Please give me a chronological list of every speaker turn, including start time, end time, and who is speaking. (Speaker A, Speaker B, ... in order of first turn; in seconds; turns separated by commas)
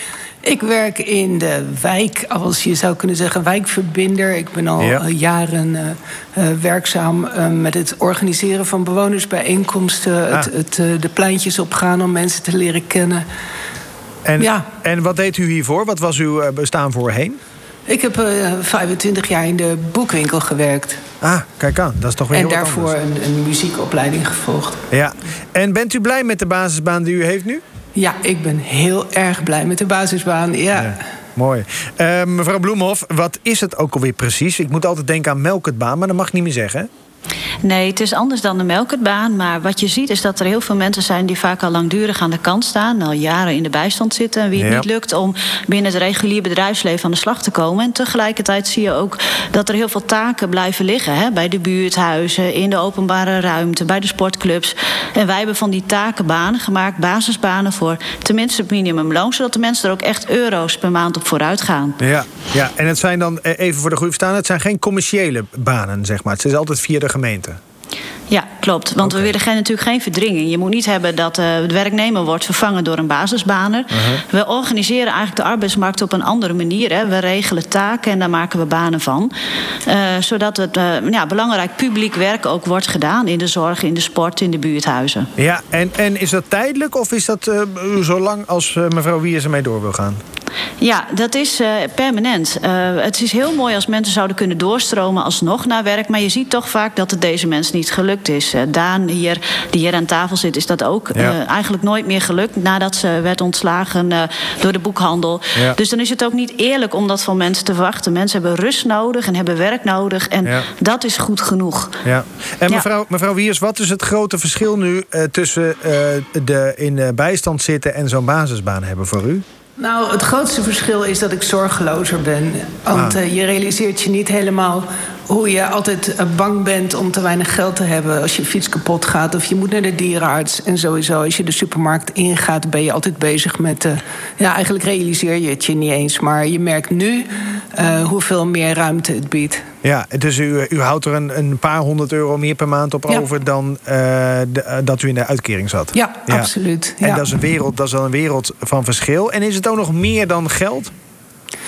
Speaker A: 0.4-13.2, Speaker B: 14.2-17.4, Speaker A: 14.4-14.7, Speaker A: 17.9-21.0, Speaker B: 21.2-22.9, Speaker A: 22.3-24.8, Speaker B: 24.9-27.6, Speaker A: 27.9-31.0, Speaker B: 30.8-36.9, Speaker C: 37.6-62.0, Speaker B: 44.6-44.9, Speaker B: 62.0-67.6, Speaker C: 68.3-79.3, Speaker B: 69.0-69.3, Speaker B: 73.9-74.2, Speaker C: 79.8-85.3, Speaker B: 85.4-90.2, Speaker C: 90.8-112.0, Speaker B: 112.0-119.4, Speaker A: 119.8-139.6, Speaker B: 139.8-146.5, Speaker A: 145.9-147.3, Speaker B: 147.0-150.9